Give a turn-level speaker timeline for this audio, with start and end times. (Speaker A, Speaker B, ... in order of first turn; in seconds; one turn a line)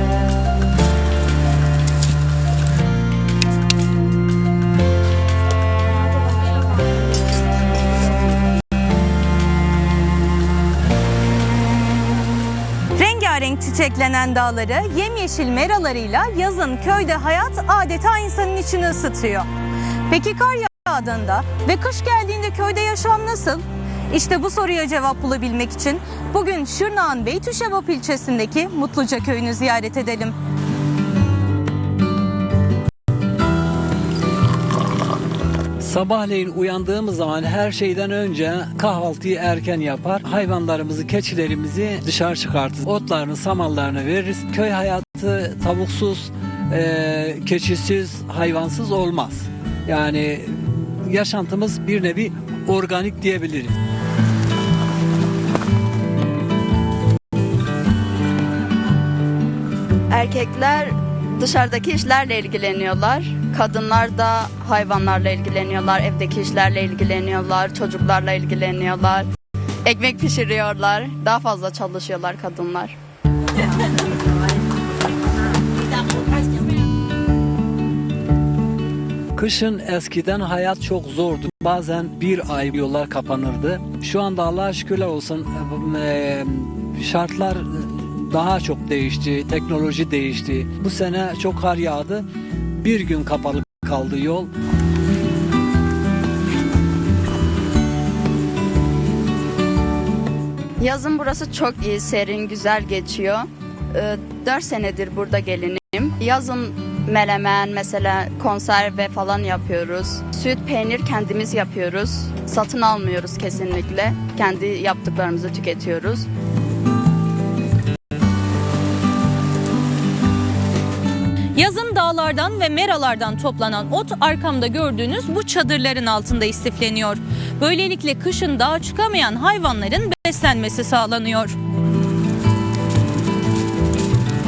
Speaker A: 12.9-19.5
Speaker A: 20.1-30.3
Speaker B: 35.8-53.8
Speaker C: 60.1-69.3
Speaker C: 69.8-73.0
Speaker B: 79.3-92.2
Speaker B: 92.8-94.5
Speaker C: 100.8-116.3
Speaker A: 121.5-131.6